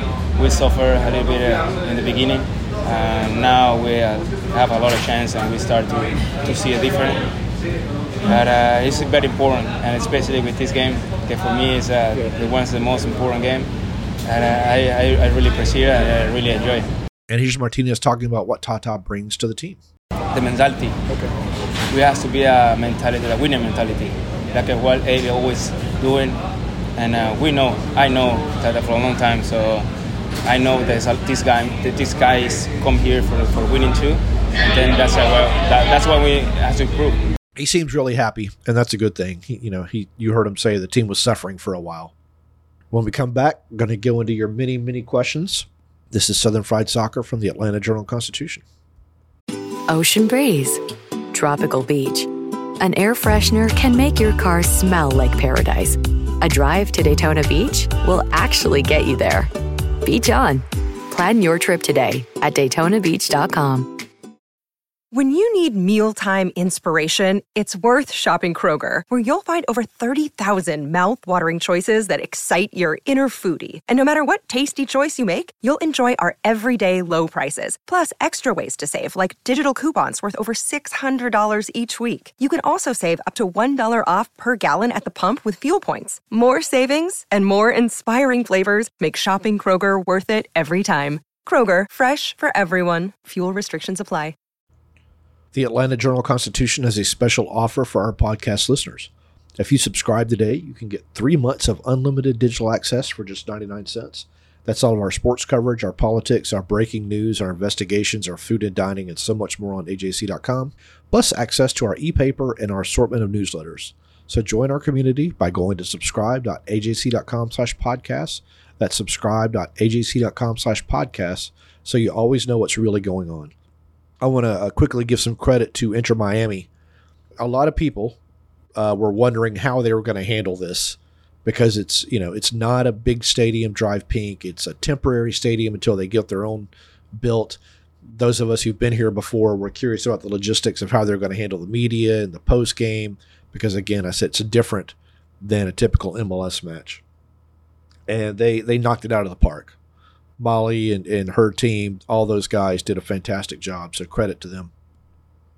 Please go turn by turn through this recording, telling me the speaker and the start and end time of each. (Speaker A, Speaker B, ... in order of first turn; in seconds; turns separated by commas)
Speaker A: 0.3-7.2, Speaker A: 8.2-13.7, Speaker A: 14.3-16.9, Speaker B: 17.3-19.8, Speaker A: 20.3-21.0, Speaker A: 21.9-26.4, Speaker A: 27.0-29.9, Speaker A: 30.4-37.2, Speaker B: 37.6-42.1, Speaker B: 42.9-48.6, Speaker C: 49.9-50.8, Speaker C: 51.3-52.3, Speaker C: 52.8-59.5, Speaker C: 60.0-63.9, Speaker D: 65.1-94.3, Speaker B: 95.5-123.5, Speaker B: 124.2-126.7, Speaker B: 127.4-128.2, Speaker B: 128.8-147.0, Speaker B: 148.1-149.8, Speaker B: 150.4-154.7